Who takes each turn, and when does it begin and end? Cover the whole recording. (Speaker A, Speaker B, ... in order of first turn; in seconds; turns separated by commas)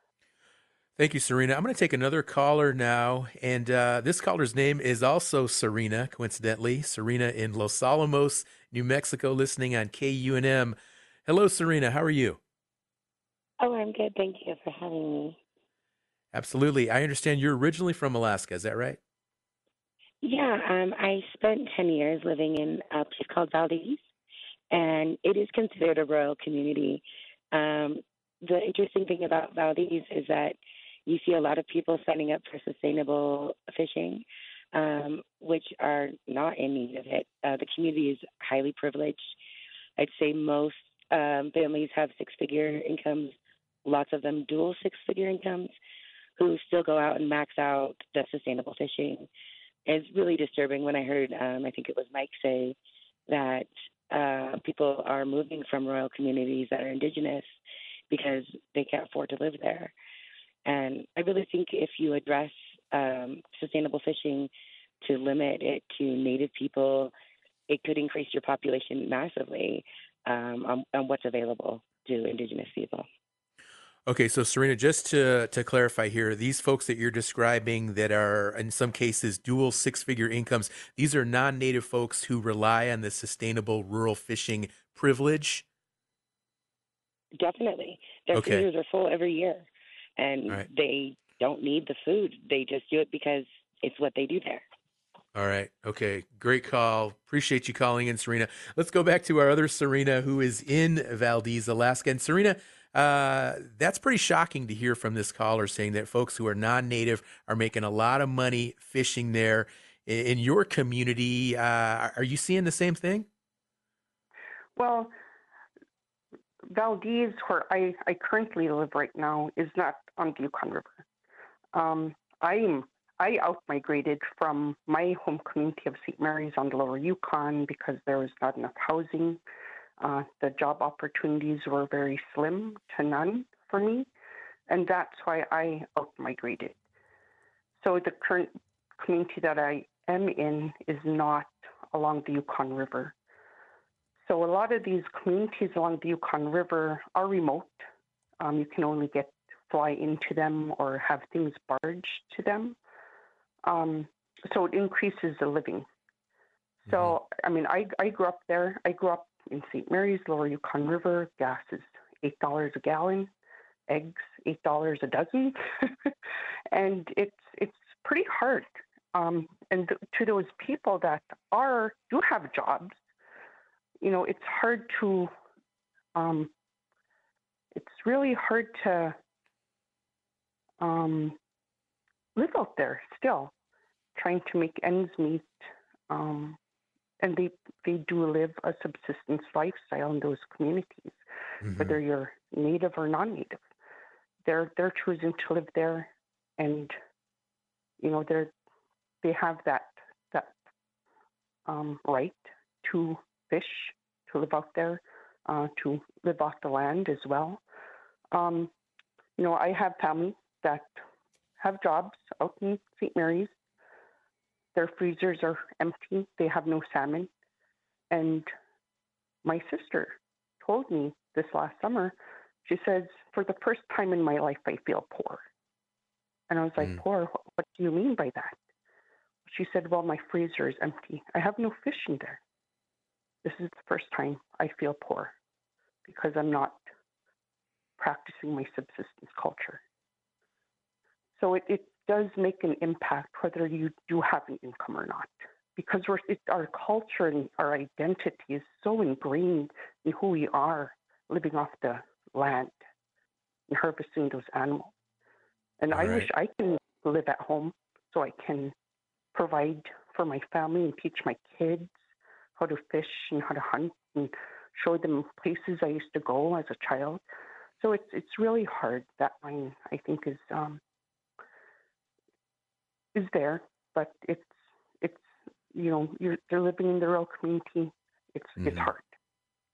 Speaker A: 1.0-10.8, Speaker A: 11.3-12.4, Speaker B: 13.6-15.4, Speaker A: 16.3-19.0, Speaker B: 20.2-24.0, Speaker B: 24.7-39.3, Speaker B: 40.0-45.7, Speaker B: 46.4-49.3, Speaker B: 49.9-52.8, Speaker B: 53.3-57.5, Speaker B: 58.1-59.9, Speaker B: 60.7-64.5, Speaker B: 65.0-67.1, Speaker B: 67.7-73.1, Speaker A: 74.1-85.6, Speaker B: 87.4-94.7, Speaker A: 88.3-88.7, Speaker A: 95.3-113.3, Speaker C: 114.8-115.1, Speaker C: 116.7-121.0, Speaker C: 121.7-129.4, Speaker C: 130.0-134.1, Speaker C: 134.7-136.8, Speaker C: 137.8-143.2, Speaker C: 144.3-147.9, Speaker C: 148.4-152.8, Speaker C: 153.7-155.9, Speaker C: 156.9-163.3, Speaker C: 163.9-165.9, Speaker C: 166.7-173.0, Speaker C: 174.0-175.3, Speaker C: 176.2-176.5, Speaker C: 177.7-179.2, Speaker C: 180.8-181.4, Speaker C: 182.4-183.5, Speaker C: 184.2-185.5, Speaker C: 186.1-186.6, Speaker C: 187.2-191.2, Speaker A: 191.6-192.0, Speaker C: 191.7-193.6, Speaker C: 194.4-196.9, Speaker C: 198.0-198.5, Speaker C: 199.2-200.6, Speaker C: 201.7-207.6, Speaker C: 208.3-208.7, Speaker C: 209.4-211.0, Speaker C: 211.6-213.5, Speaker C: 214.8-217.3, Speaker C: 218.1-218.5, Speaker C: 219.4-225.4, Speaker C: 226.5-228.6, Speaker C: 229.5-232.4, Speaker C: 233.4-235.3, Speaker C: 236.1-236.8, Speaker C: 238.0-239.8, Speaker C: 241.4-252.8, Speaker C: 253.7-254.9, Speaker C: 255.8-258.7, Speaker A: 255.9-256.3, Speaker C: 259.3-261.9, Speaker C: 262.6-267.2, Speaker C: 267.8-270.8, Speaker C: 273.1-279.1, Speaker A: 278.6-278.9